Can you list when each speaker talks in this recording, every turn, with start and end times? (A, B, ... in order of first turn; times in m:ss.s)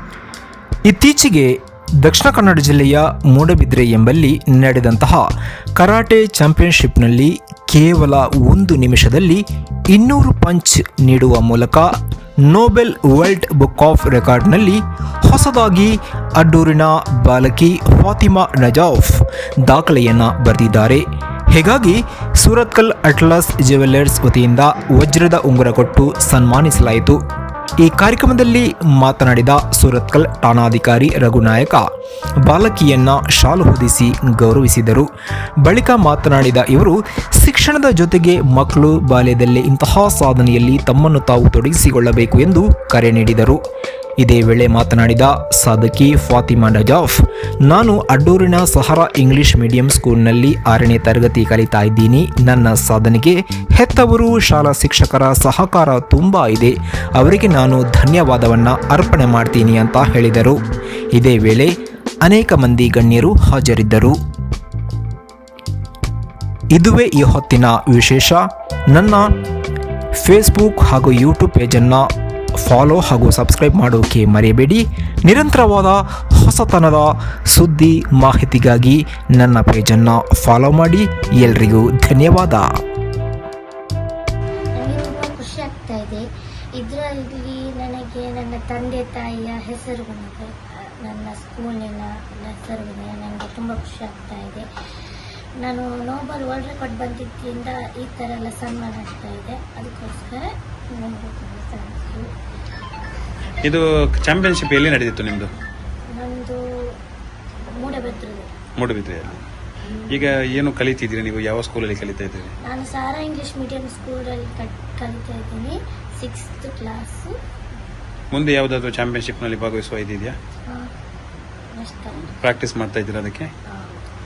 0:00.9-0:11.9 A
0:12.5-0:27.2 A
0:27.8-0:31.8 A
0:32.4-0:35.1 A
0:35.6-0:43.6 A
0:44.2-1:00.6 A
1:01.2-1:01.7 A
1:02.2-1:04.2 A
1:06.7-1:09.3 A
1:10.2-1:12.1 A
1:12.6-1:22.7 A
1:24.8-1:34.7 B
1:35.6-1:42.3 B
1:43.6-1:45.5 C
1:46.1-1:46.9 B
1:47.7-1:48.5 B
1:48.8-1:49.4 C
1:50.1-1:52.5 C
1:52.6-1:57.3 B
1:58.3-2:00.4 C
2:01.7-2:02.4 B
2:02.4-2:03.5 C
2:03.7-2:04.0 B